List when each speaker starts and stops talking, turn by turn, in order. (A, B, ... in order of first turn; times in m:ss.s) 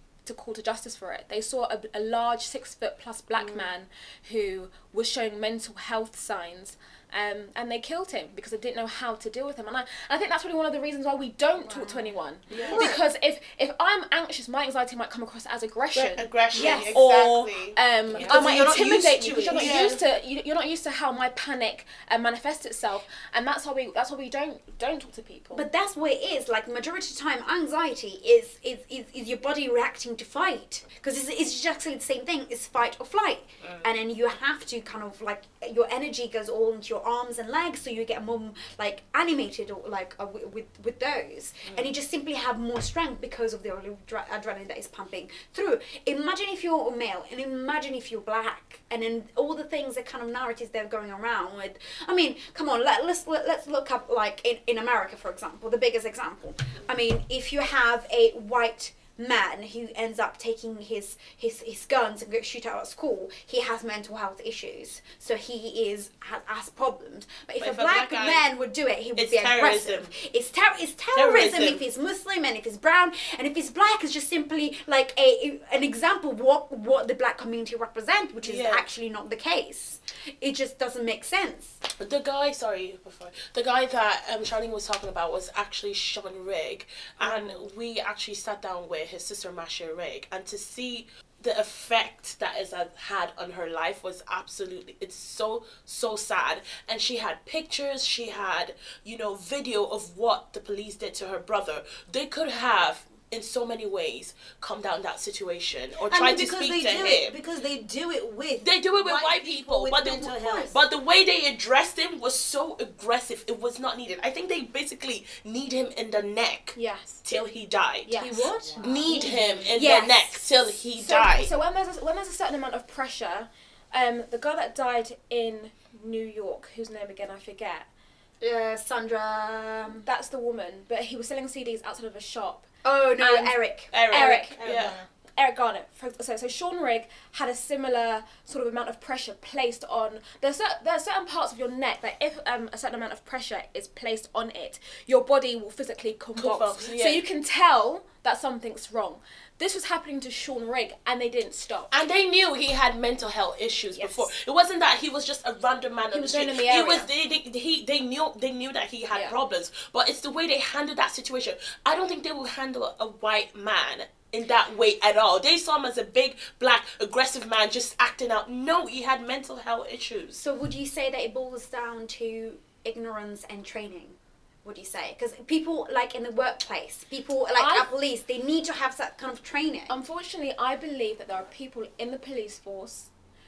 0:00.2-0:25.6 A
0:03.3-0:03.7 B
0:11.6-0:13.0 C
0:12.5-0:12.9 B
0:12.6-0:13.0 D
0:15.9-0:18.4 B
0:16.5-0:17.0 C
0:18.2-0:19.9 D
0:19.5-0:20.0 B
0:25.5-1:21.8 C
1:07.6-1:08.4 B
1:09.2-1:10.1 B
1:11.1-1:11.8 B
1:18.4-1:18.8 B
1:22.0-1:47.3 B
1:27.2-1:27.6 C
1:46.1-1:50.7 D
1:48.6-2:01.5 B
1:50.1-1:50.7 C
1:56.7-1:57.2 A
1:58.0-1:58.4 A
1:58.1-2:00.4 C
1:58.9-1:59.4 D
1:59.0-1:59.7 A
2:01.0-2:07.9 A
2:08.4-2:10.0 C
2:09.9-2:12.7 A
2:12.8-2:14.3 C
2:13.2-2:14.6 A
2:13.9-2:15.0 B
2:14.6-2:15.1 D
2:15.4-2:31.9 A
2:26.4-2:27.2 B
2:31.9-2:50.4 B
2:33.9-2:34.3 A
2:36.1-2:37.1 A
2:39.1-2:39.4 A
2:50.4-3:00.0 C
2:57.6-2:57.9 A
2:59.9-3:03.1 A